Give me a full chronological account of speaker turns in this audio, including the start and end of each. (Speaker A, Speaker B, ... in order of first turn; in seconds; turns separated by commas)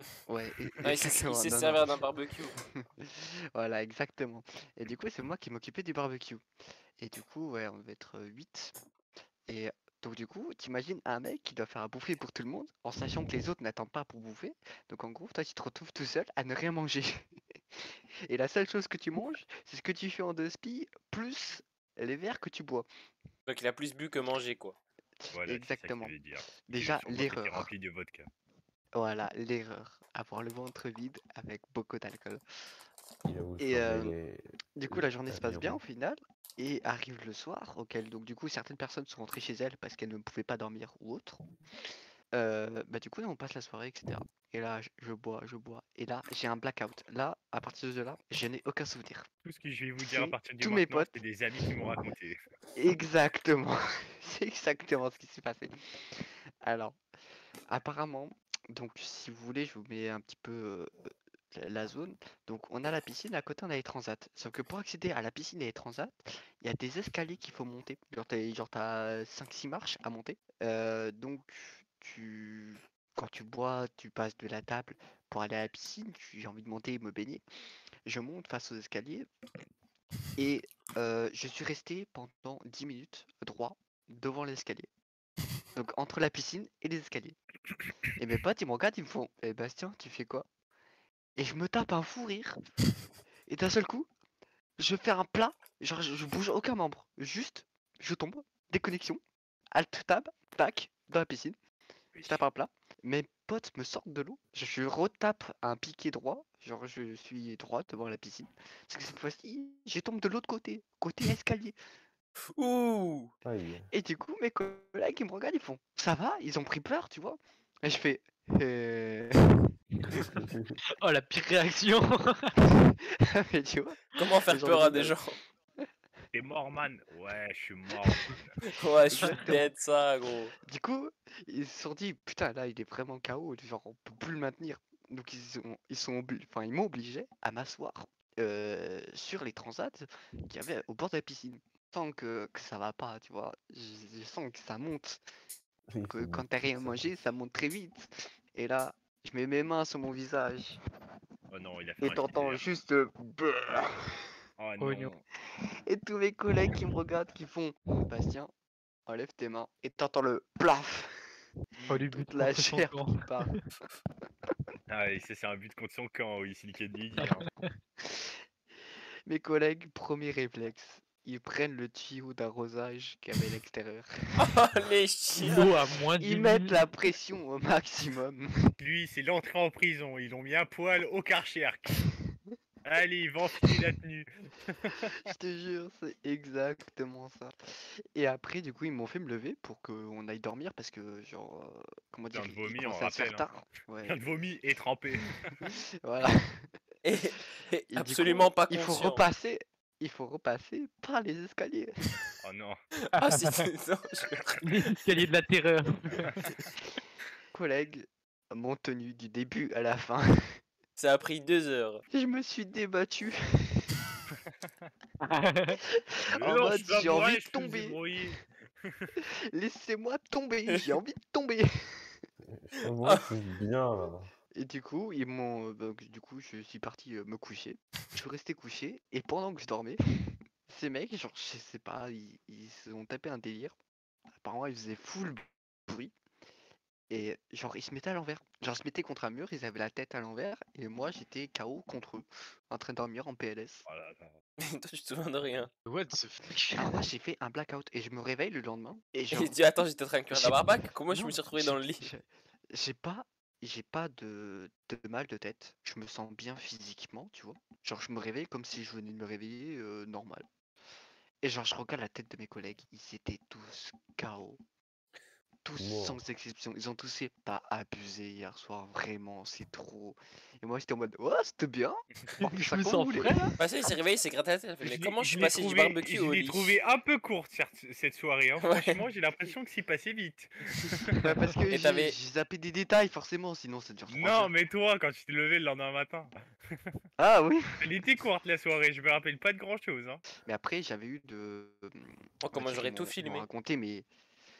Speaker A: 0.3-2.0, Speaker B: 0.8-2.5, Speaker A: 2.7-6.4, Speaker A: 7.0-8.7, Speaker A: 9.5-17.2, Speaker A: 18.3-22.9, Speaker B: 23.5-24.7, Speaker A: 25.3-27.7, Speaker C: 25.3-28.3, Speaker A: 28.9-32.4, Speaker D: 33.2-35.8, Speaker A: 33.6-34.1, Speaker A: 34.8-41.4, Speaker A: 42.3-49.3, Speaker C: 49.4-52.4, Speaker A: 50.0-51.2, Speaker A: 52.7-57.0, Speaker A: 57.7-60.9, Speaker A: 61.5-77.4, Speaker A: 78.0-79.3, Speaker A: 80.3-84.9, Speaker A: 85.7-87.4, Speaker A: 88.2-90.5, Speaker A: 91.3-92.6, Speaker A: 93.5-94.1, Speaker A: 94.8-99.2, Speaker A: 99.7-101.5, Speaker B: 102.1-102.4, Speaker A: 102.2-111.8, Speaker B: 112.5-113.3, Speaker D: 113.4-113.9, Speaker A: 113.9-119.6, Speaker E: 121.0-122.3, Speaker A: 122.8-125.2, Speaker B: 124.2-125.3, Speaker C: 126.3-128.5, Speaker B: 128.7-130.5, Speaker A: 129.1-129.7, Speaker A: 130.6-145.2, Speaker D: 145.9-147.1, Speaker A: 146.1-150.8, Speaker C: 151.5-152.6, Speaker A: 152.0-154.2, Speaker C: 154.6-155.2, Speaker E: 154.8-155.2, Speaker A: 155.8-158.5, Speaker A: 159.1-161.1, Speaker A: 161.8-163.5, Speaker E: 161.9-163.6, Speaker C: 164.9-167.4, Speaker E: 167.2-167.4, Speaker A: 169.3-174.1, Speaker B: 174.4-175.7, Speaker E: 175.4-176.9, Speaker A: 176.2-178.7, Speaker C: 178.8-182.0, Speaker C: 182.8-185.1, Speaker A: 185.3-187.5, Speaker A: 188.1-194.2, Speaker C: 192.3-193.5, Speaker C: 194.0-195.5, Speaker A: 195.6-196.6, Speaker B: 197.0-199.3, Speaker A: 197.9-202.2, Speaker C: 202.4-202.8, Speaker B: 203.1-204.6, Speaker E: 203.2-203.6, Speaker E: 204.6-206.5, Speaker A: 207.5-210.3, Speaker B: 211.0-212.0, Speaker A: 212.1-214.0, Speaker E: 215.2-215.8, Speaker A: 216.1-218.0, Speaker C: 216.3-219.1, Speaker A: 219.5-221.6, Speaker D: 222.4-224.3, Speaker A: 224.5-230.0, Speaker A: 230.7-233.7, Speaker A: 234.4-236.1, Speaker A: 237.1-243.8, Speaker C: 243.9-244.3, Speaker B: 244.6-245.7, Speaker E: 245.8-246.9, Speaker A: 246.8-249.6, Speaker B: 249.3-252.0, Speaker A: 250.3-260.4, Speaker A: 261.4-264.6, Speaker A: 265.6-273.5, Speaker D: 265.8-266.2, Speaker E: 272.4-273.6, Speaker B: 273.6-276.8, Speaker C: 274.8-281.2, Speaker B: 278.6-279.0, Speaker A: 281.2-284.5, Speaker B: 281.7-282.1, Speaker C: 284.1-286.9, Speaker A: 287.2-287.9, Speaker C: 287.8-290.2, Speaker A: 290.4-294.1, Speaker B: 292.4-293.4